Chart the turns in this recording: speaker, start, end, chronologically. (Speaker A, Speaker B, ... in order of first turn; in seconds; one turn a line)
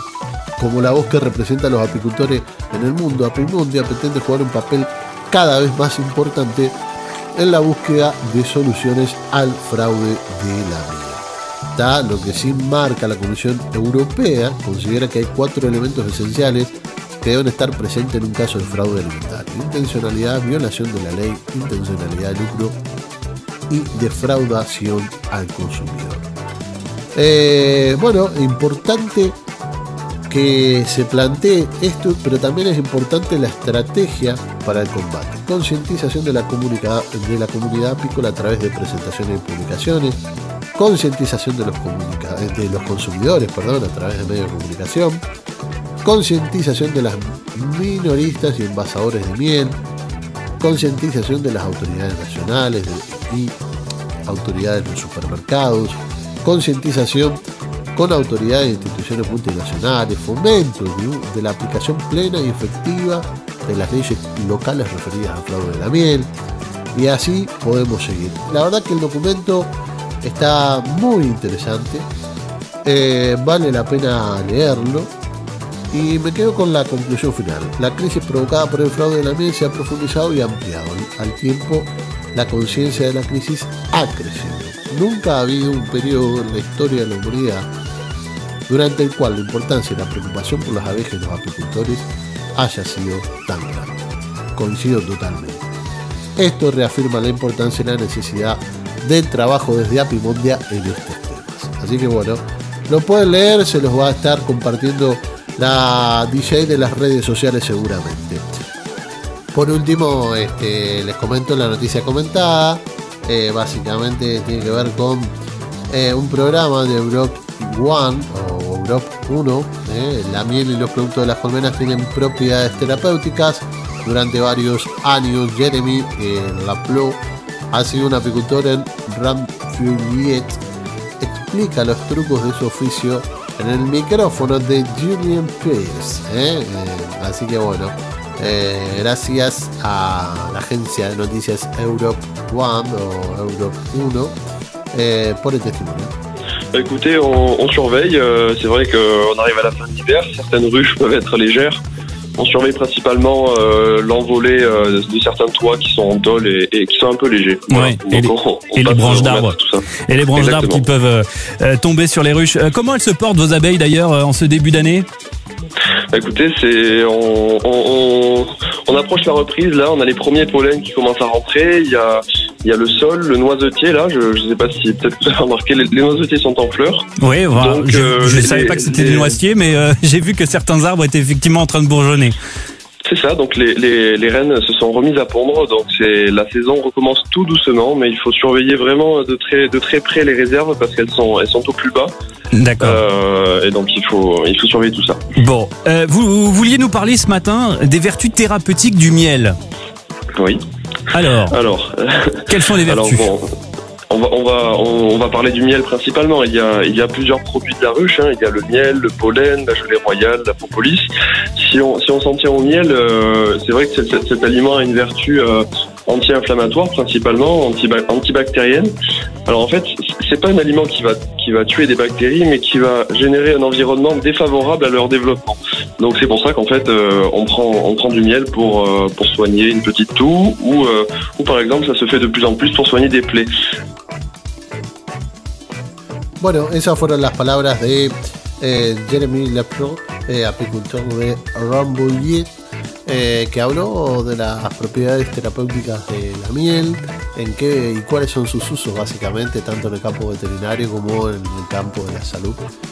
Speaker A: 0.6-6.8
Speaker A: 7.3-22.8
Speaker A: 23.7-26.3
Speaker A: 27.1-29.4
Speaker A: 30.3-40.2
Speaker A: 40.8-45.2
Speaker A: 46.0-49.8
Speaker A: 50.6-53.6
Speaker A: 54.3-57.4
Speaker A: 58.0-66.3
Speaker A: 66.9-72.1
Speaker A: 72.8-75.1
Speaker A: 75.9-87.7
Speaker A: 88.7-94.0
Speaker A: 94.5-95.7
Speaker A: 96.4-108.5
Speaker A: 109.5-115.3
Speaker A: 115.9-130.6
Speaker A: 131.2-144.4
Speaker A: 144.9-146.1
Speaker B: 146.7-151.8
Speaker B: 152.4-160.9
Speaker C: 157.7-165.1
Speaker B: 166.1-179.4
Speaker C: 177.2-182.4
Speaker B: 183.1-192.1
Speaker C: 192.5-193.0
Speaker B: 192.8-195.2
Speaker C: 195.3-199.6
Speaker B: 200.4-203.5
Speaker C: 201.1-201.6
Speaker C: 202.5-203.3
Speaker B: 204.1-218.9
Speaker B: 219.5-233.5
Speaker A: 236.4-242.5
Speaker A: 243.1-252.7